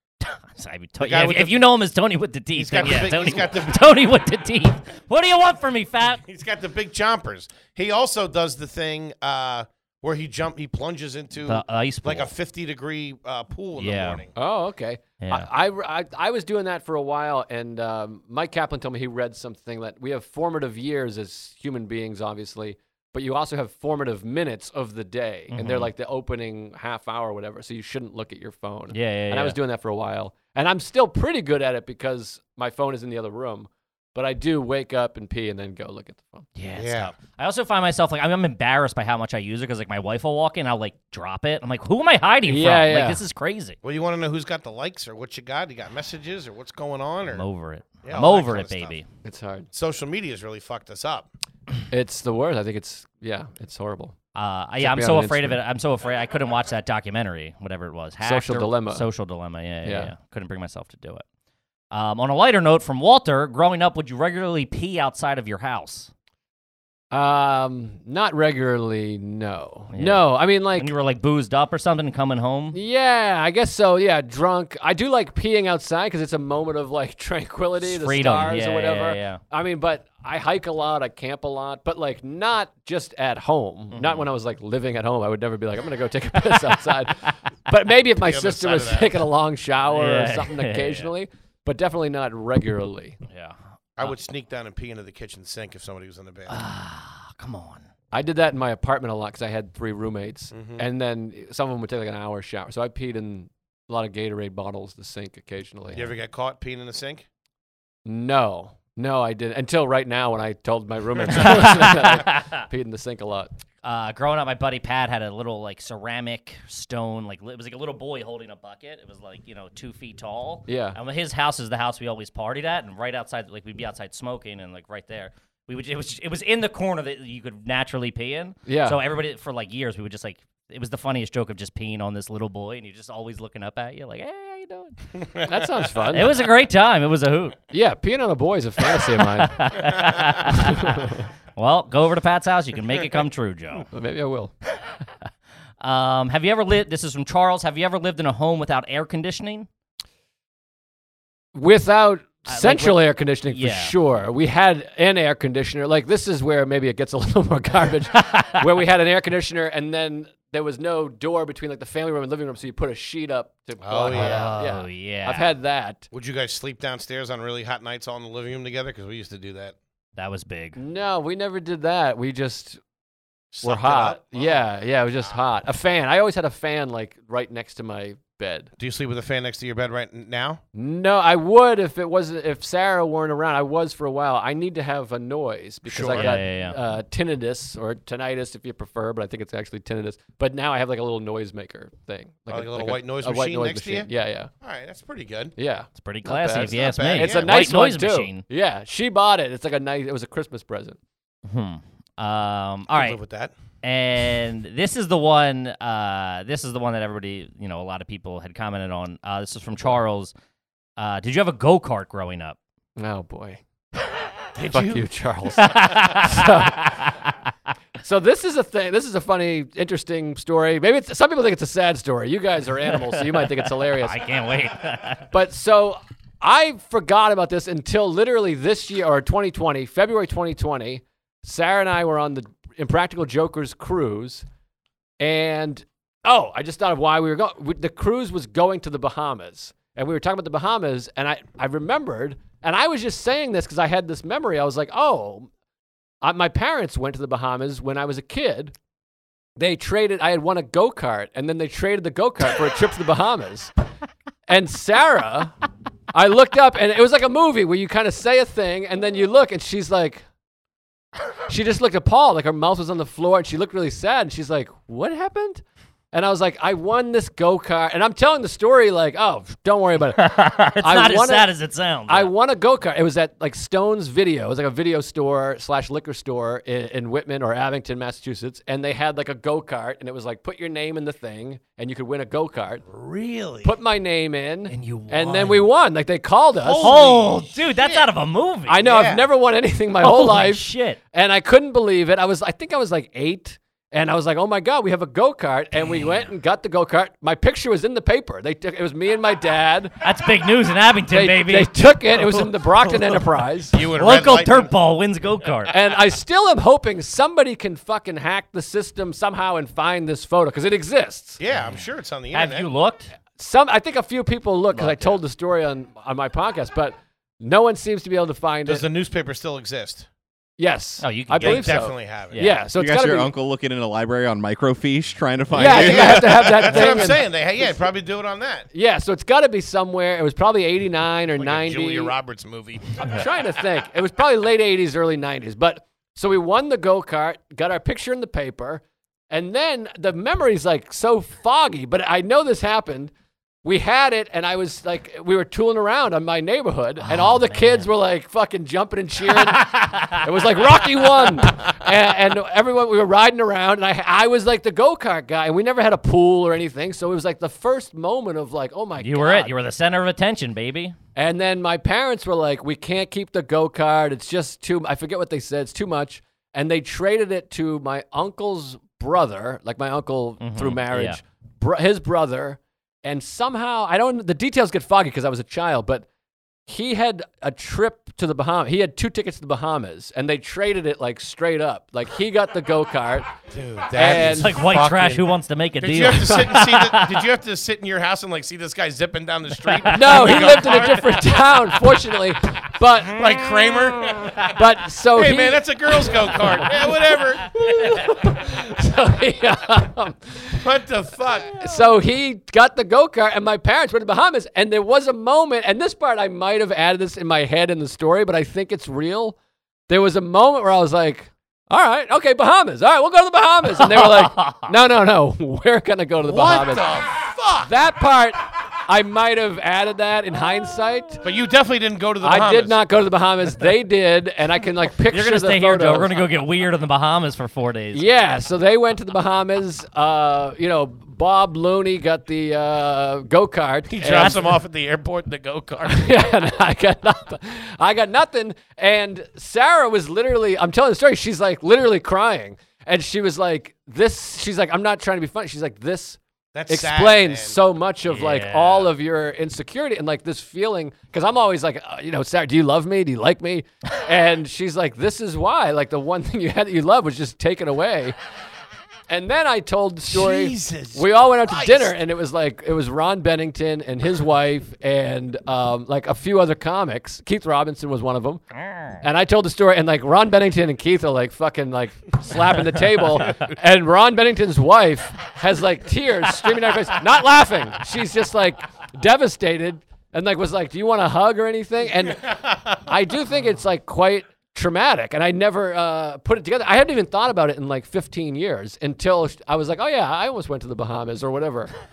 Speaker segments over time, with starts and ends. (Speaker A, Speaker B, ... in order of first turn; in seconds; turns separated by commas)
Speaker A: 0.2-6.2, Speaker B: 1.0-1.6, Speaker B: 2.5-3.9, Speaker B: 6.2-14.3, Speaker A: 11.5-12.3, Speaker A: 13.8-14.2, Speaker C: 14.4-36.5, Speaker A: 15.2-15.5, Speaker A: 25.5-25.9, Speaker A: 28.9-29.6, Speaker A: 36.6-43.8, Speaker B: 36.8-37.1, Speaker C: 42.5-43.2, Speaker B: 43.8-47.4, Speaker A: 47.3-49.1, Speaker B: 48.0-49.0, Speaker C: 49.2-49.7, Speaker B: 49.7-51.3, Speaker C: 51.9-54.1, Speaker A: 54.4-61.2, Speaker C: 54.8-55.6, Speaker C: 58.2-59.0, Speaker C: 59.8-60.1, Speaker A: 61.9-66.1, Speaker C: 67.1-70.9, Speaker A: 69.9-72.8, Speaker C: 72.7-93.2, Speaker A: 77.8-79.4, Speaker A: 83.9-84.3, Speaker B: 88.1-89.3, Speaker A: 89.9-91.1, Speaker A: 93.3-94.1, Speaker B: 94.0-96.6, Speaker A: 96.5-97.9, Speaker C: 98.1-106.1, Speaker B: 100.5-100.8, Speaker B: 105.9-107.3, Speaker C: 108.0-113.5, Speaker A: 111.4-112.5, Speaker A: 113.8-135.1, Speaker C: 120.7-121.0, Speaker C: 128.7-129.0, Speaker C: 135.4-136.3, Speaker A: 136.1-137.6, Speaker C: 137.7-139.6, Speaker A: 139.1-143.9, Speaker C: 140.5-141.3, Speaker C: 143.9-144.5, Speaker A: 145.8-149.7, Speaker C: 151.6-166.1, Speaker A: 152.5-153.9, Speaker A: 158.2-158.5, Speaker B: 163.8-164.5, Speaker A: 164.1-165.5, Speaker B: 166.1-169.8, Speaker A: 170.2-170.8, Speaker C: 170.8-172.8, Speaker B: 173.5-174.6, Speaker C: 173.6-178.7, Speaker B: 178.8-180.6, Speaker C: 180.7-194.5, Speaker B: 185.9-186.4, Speaker A: 186.1-186.8, Speaker B: 192.5-194.1, Speaker B: 194.6-195.5, Speaker C: 195.6-201.0, Speaker A: 196.0-198.4, Speaker B: 196.5-197.7, Speaker A: 201.5-203.2, Speaker B: 202.9-203.5, Speaker A: 203.8-210.3, Speaker A: 211.0-212.6, Speaker C: 213.0-213.6, Speaker B: 214.5-215.1, Speaker C: 214.7-217.0, Speaker A: 215.6-217.1, Speaker C: 218.0-224.2, Speaker A: 223.1-225.3, Speaker C: 225.3-234.5, Speaker C: 235.2-245.5, Speaker C: 246.2-248.8, Speaker C: 249.6-253.7, Speaker C: 254.5-255.5, Speaker C: 256.1-260.2, Speaker C: 261.5-271.5, Speaker A: 270.1-272.3, Speaker C: 272.1-282.9, Speaker B: 282.9-283.8, Speaker C: 283.6-287.0, Speaker A: 284.7-285.6, Speaker B: 286.6-288.1, Speaker A: 286.8-288.8, Speaker C: 288.7-299.9, Speaker B: 288.8-289.2, Speaker A: 290.0-291.0, Speaker A: 296.0-296.3, Speaker A: 300.0-303.2, Speaker C: 301.1-303.8, Speaker B: 303.7-304.7, Speaker A: 303.9-305.8, Speaker C: 305.7-311.4, Speaker B: 311.4-312.7, Speaker A: 311.5-313.1, Speaker C: 313.4-318.9, Speaker A: 314.8-315.1, Speaker B: 318.6-320.1, Speaker C: 320.6-323.3, Speaker A: 321.0-322.6, Speaker B: 321.4-322.4, Speaker D: 322.8-326.6, Speaker C: 325.5-327.8, Speaker B: 325.5-328.7, Speaker C: 328.7-332.1, Speaker B: 331.4-333.0, Speaker C: 333.0-343.1, Speaker C: 343.6-359.5, Speaker A: 347.0-347.9, Speaker A: 349.2-350.2, Speaker A: 351.2-351.4, Speaker A: 359.0-360.9, Speaker C: 361.1-376.1, Speaker A: 370.4-371.2, Speaker C: 376.7-383.3, Speaker B: 383.5-385.3, Speaker C: 383.9-384.5, Speaker A: 384.1-387.2, Speaker B: 385.8-391.2, Speaker A: 389.7-391.0, Speaker C: 389.9-393.3, Speaker B: 393.1-394.5, Speaker C: 394.4-396.9, Speaker B: 395.1-397.5, Speaker C: 397.4-400.6, Speaker B: 400.6-401.6, Speaker C: 401.6-409.4, Speaker C: 409.9-417.1, Speaker A: 413.8-414.7, Speaker B: 416.2-417.7, Speaker C: 417.6-421.2, Speaker B: 421.2-422.8, Speaker C: 422.2-426.1, Speaker A: 425.0-428.1, Speaker C: 427.9-434.4, Speaker B: 433.9-436.1, Speaker A: 434.1-434.5, Speaker C: 435.9-458.1, Speaker B: 446.5-447.6, Speaker A: 448.1-448.9, Speaker C: 459.1-468.4, Speaker B: 460.1-462.0, Speaker C: 469.0-491.7, Speaker B: 482.2-482.8